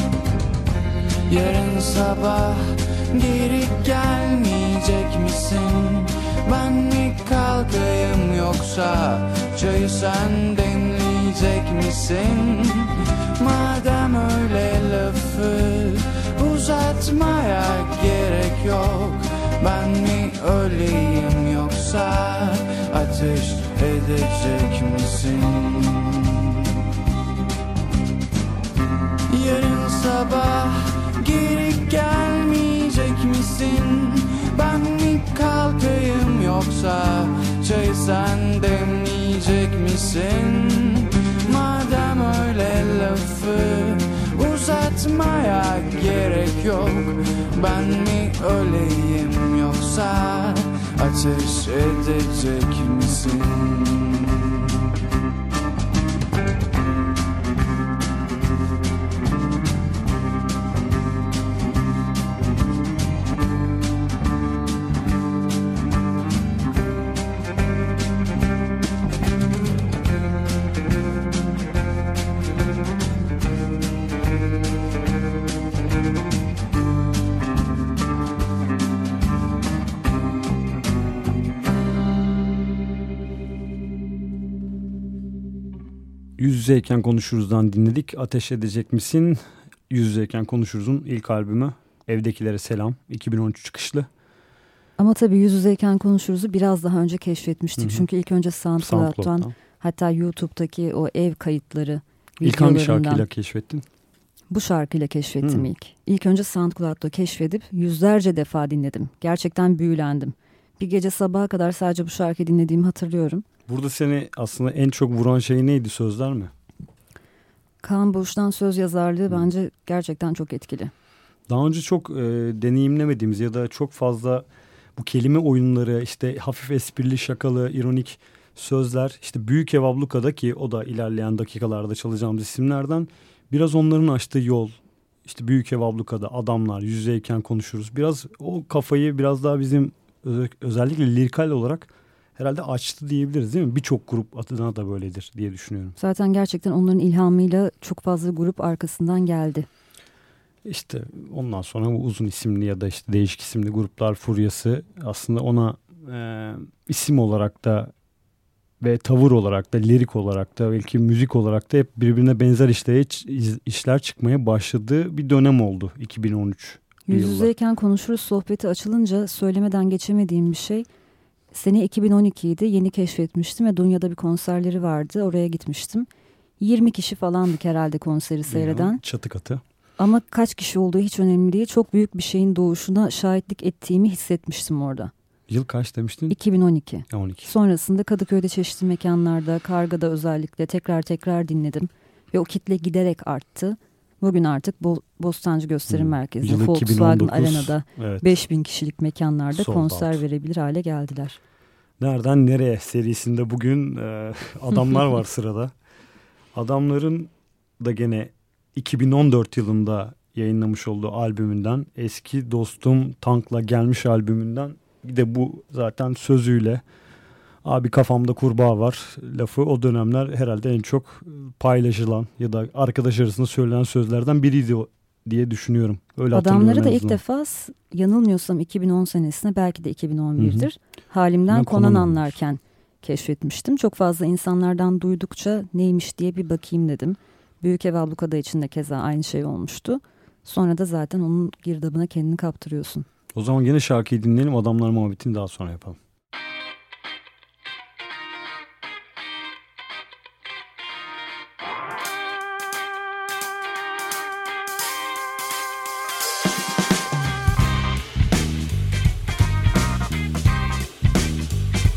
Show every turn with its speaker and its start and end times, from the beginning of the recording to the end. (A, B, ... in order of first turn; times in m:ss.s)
0:01.3-0:26.7 A
0:29.3-0:54.8 A
1:26.4-1:34.1 B
1:35.0-1:43.2 C
1:37.8-1:38.1 B
1:38.8-1:39.5 B
1:42.4-1:43.8 B
1:44.5-1:53.4 C
1:45.4-1:45.7 B
1:53.7-1:56.5 B
1:57.8-2:00.9 C
2:01.5-2:26.0 B
2:26.0-2:29.7 C
2:30.6-2:37.9 B
2:38.8-2:47.5 B
2:47.1-2:50.9 C
2:51.5-2:56.1 C
2:56.6-2:59.0 C
2:58.4-2:59.6 B
3:00.0-3:05.1 C
3:05.5-3:06.4 B
3:06.3-3:21.4 C
3:07.1-3:07.5 B
3:15.9-3:18.4 B
3:19.5-3:20.2 B
3:22.0-3:25.7 B
3:26.5-3:36.8 B
3:37.6-3:47.2 B
3:46.3-4:03.0 C
3:50.4-3:50.7 B
3:51.5-3:52.4 B
4:03.4-4:06.0 B